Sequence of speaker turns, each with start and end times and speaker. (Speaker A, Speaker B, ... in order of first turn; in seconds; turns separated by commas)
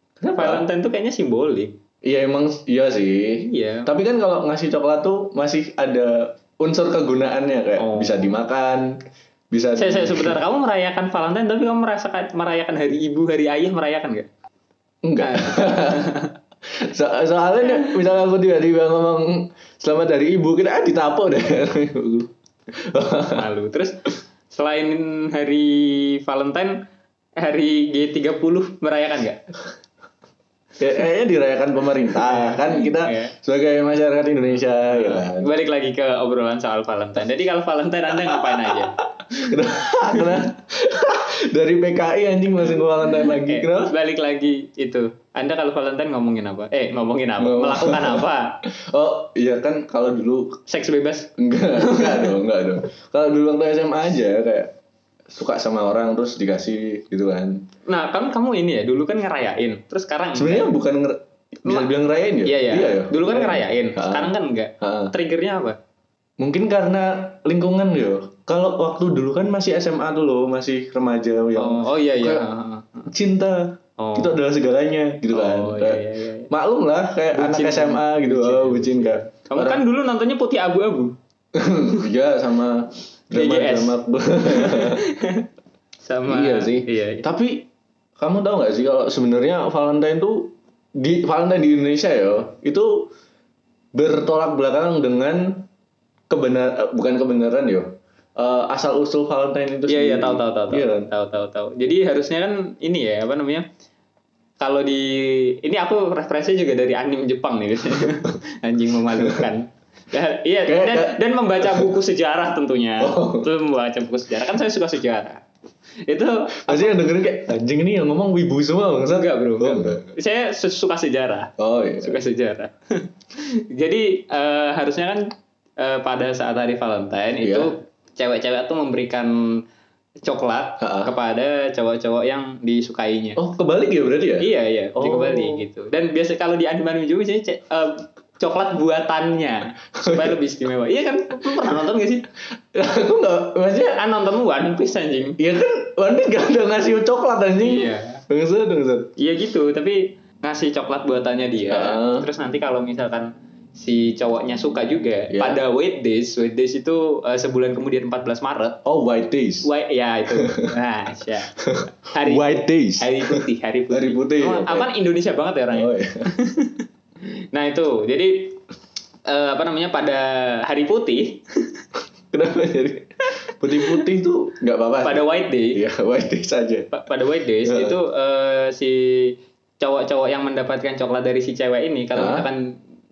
Speaker A: 0.2-0.7, Speaker B: 0.3-1.8, Speaker A: 2.0-8.9, Speaker B: 3.5-3.9, Speaker B: 7.8-8.2, Speaker A: 9.5-10.4, Speaker B: 9.8-14.3, Speaker A: 15.0-16.2, Speaker B: 15.2-16.3, Speaker A: 16.8-23.4, Speaker B: 17.7-18.0, Speaker B: 23.3-24.0, Speaker B: 24.5-26.8, Speaker B: 27.4-29.5, Speaker A: 30.8-35.5, Speaker B: 32.1-33.3, Speaker B: 34.9-39.0, Speaker A: 38.3-43.9, Speaker B: 42.7-48.6, Speaker A: 47.4-50.6, Speaker B: 50.7-52.4, Speaker A: 51.4-54.7, Speaker A: 55.3-57.6, Speaker B: 57.9-60.7, Speaker A: 60.4-65.1, Speaker B: 61.6-61.9, Speaker B: 62.4-65.8, Speaker A: 66.4-72.5, Speaker B: 71.5-73.1, Speaker A: 73.1-79.8, Speaker B: 74.0-74.4, Speaker B: 75.3-76.5, Speaker B: 77.3-81.1, Speaker A: 81.5-85.0, Speaker B: 83.3-85.5, Speaker B: 86.0-87.2, Speaker A: 86.3-93.1, Speaker A: 93.9-95.7, Speaker A: 96.3-101.1, Speaker B: 99.9-103.7, Speaker B: 104.6-115.4, Speaker A: 109.2-109.5, Speaker A: 110.7-111.9, Speaker A: 113.0-113.5, Speaker B: 116.1-117.1, Speaker A: 116.6-120.1, Speaker B: 119.1-125.2, Speaker A: 121.6-122.2, Speaker B: 125.8-129.3, Speaker A: 127.4-127.7, Speaker B: 130.2-133.4, Speaker A: 130.8-131.1, Speaker A: 133.4-135.6, Speaker B: 134.4-142.3, Speaker A: 140.0-140.4, Speaker A: 141.4-141.8, Speaker A: 142.7-144.0, Speaker B: 143.9-145.4, Speaker A: 145.4-149.1, Speaker B: 147.6-148.2, Speaker B: 149.2-158.8, Speaker A: 151.7-152.3, Speaker A: 155.3-155.6, Speaker A: 158.8-159.7, Speaker B: 159.6-161.6, Speaker A: 160.3-160.7, Speaker A: 161.6-163.4, Speaker B: 162.1-166.8, Speaker A: 163.9-164.9, Speaker A: 165.7-166.3, Speaker B: 167.5-168.6, Speaker B: 169.3-171.8, Speaker A: 172.3-176.9, Speaker B: 173.7-174.0, Speaker B: 175.0-175.8, Speaker B: 176.9-182.7, Speaker A: 177.7-178.0, Speaker A: 182.1-182.5